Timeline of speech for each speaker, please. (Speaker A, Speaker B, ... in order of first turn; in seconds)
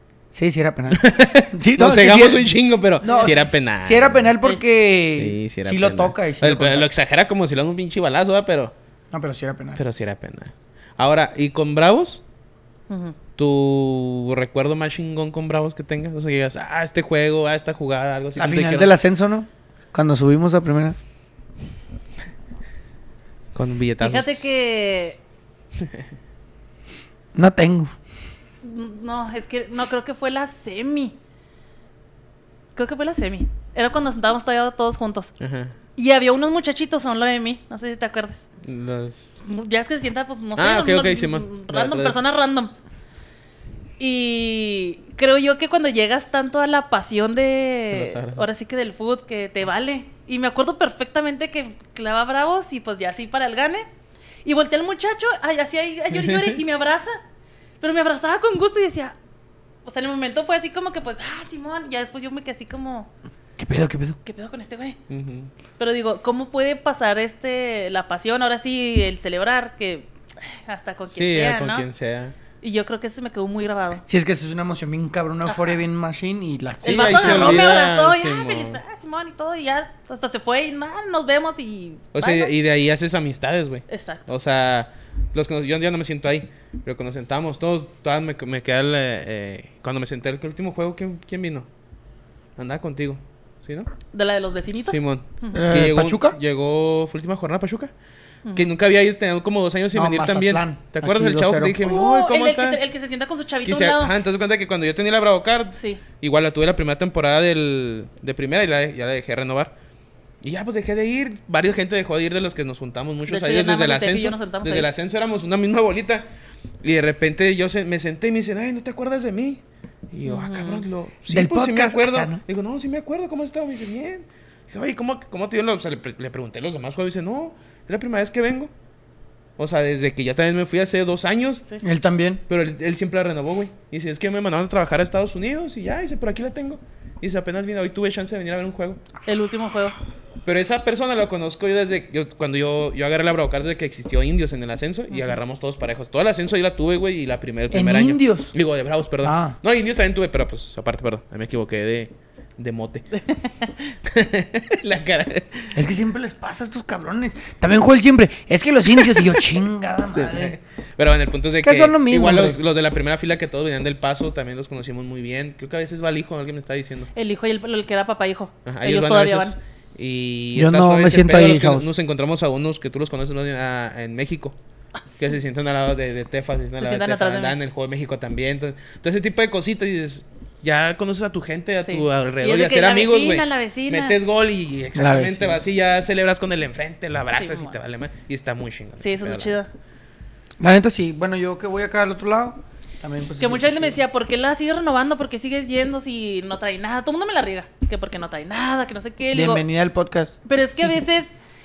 Speaker A: 0.3-6.9, 9.1-9.8, 18.4-21.0, 27.4-27.9, 63.6-64.2, 74.1-77.8, 95.5-96.4, 99.9-101.8, 121.3-122.4, 131.8-132.4, 147.7-148.5, 149.2-149.6, 155.7-160.6, 161.6-162.6, 170.6-171.9, 184.9-185.6, 190.6-194.0, 199.3-200.4
Speaker B: 0.9-4.3, 5.2-8.7, 9.8-12.2, 13.4-18.9, 23.5-24.3, 35.4-35.7, 38.6-39.4, 40.6-42.2, 47.9-48.5, 56.2-56.5, 65.1-65.5, 71.1-72.4, 76.8-78.8, 82.1-91.7, 92.6-93.9, 94.9-97.9, 98.5-102.8, 103.7-109.7, 110.4-116.3, 116.8-128.7, 129.6-131.6, 132.5-139.0, 140.4-153.1, 154.1-155.8, 159.1-159.4, 160.0-167.1, 168.7-174.6, 175.2-189.6
Speaker C: 3.1-3.4, 12.9-13.2, 24.0-25.2, 28.6-31.2, 32.8-35.3, 36.0-38.5, 39.4-42.7, 44.0-53.9, 54.4-57.2, 57.8-59.2, 59.9-63.1, 64.2-65.0, 65.8-71.9, 72.6-74.0, 76.8-82.5, 83.9-84.3, 94.1-95.7, 101.8-104.1, 105.8-106.0, 113.3-114.9, 120.3-120.8, 139.2-140.0, 153.2-153.7, 167.1-169.6, 176.8-177.6, 181.8-184.2, 187.3-187.8, 189.0-189.7, 193.4-199.6, 200.5-201.3